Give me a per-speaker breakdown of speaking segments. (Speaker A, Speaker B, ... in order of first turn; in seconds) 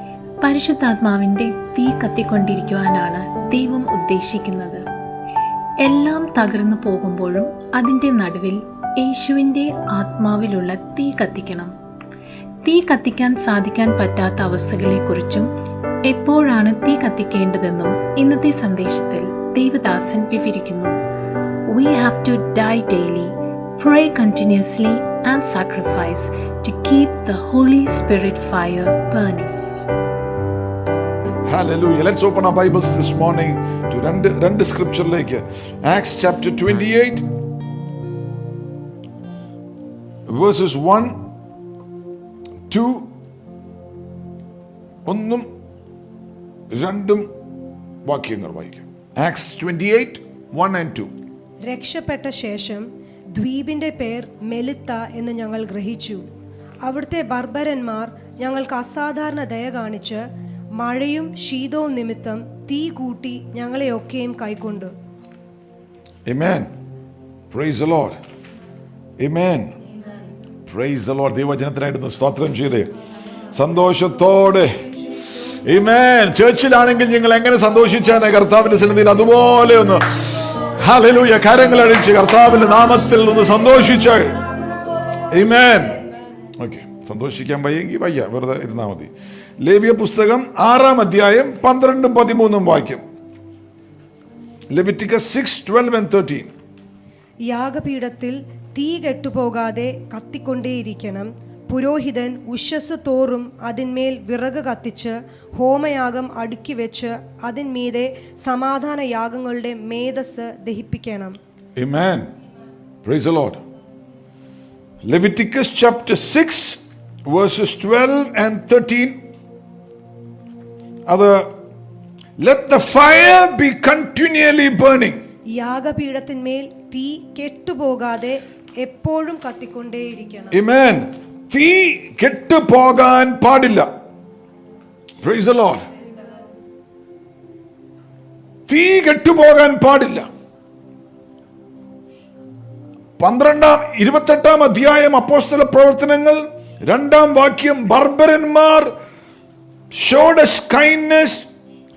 Speaker A: 0.4-4.8, 5.8-11.7, 12.7-15.5, 16.1-21.0, 21.7-29.5
Speaker B: 31.5-37.3, 40.3-41.2, 42.7-43.1, 45.1-45.5, 46.7-47.3, 48.0-51.1, 66.3-66.7, 67.5-68.2, 69.2-69.8, 70.7-72.9, 73.5-74.9, 75.5-84.4, 85.2-86.0, 86.6-93.0, 94.7-96.5, 111.8-112.3, 113.0-113.6, 115.0-119.2, 121.1-121.5, 122.4-125.2, 130.5-133.9, 135.2-135.9, 138.7-140.3, 143.2-148.9, 149.9-151.5
Speaker C: 51.6-56.3, 56.8-64.9, 97.4-111.4, 125.5-130.6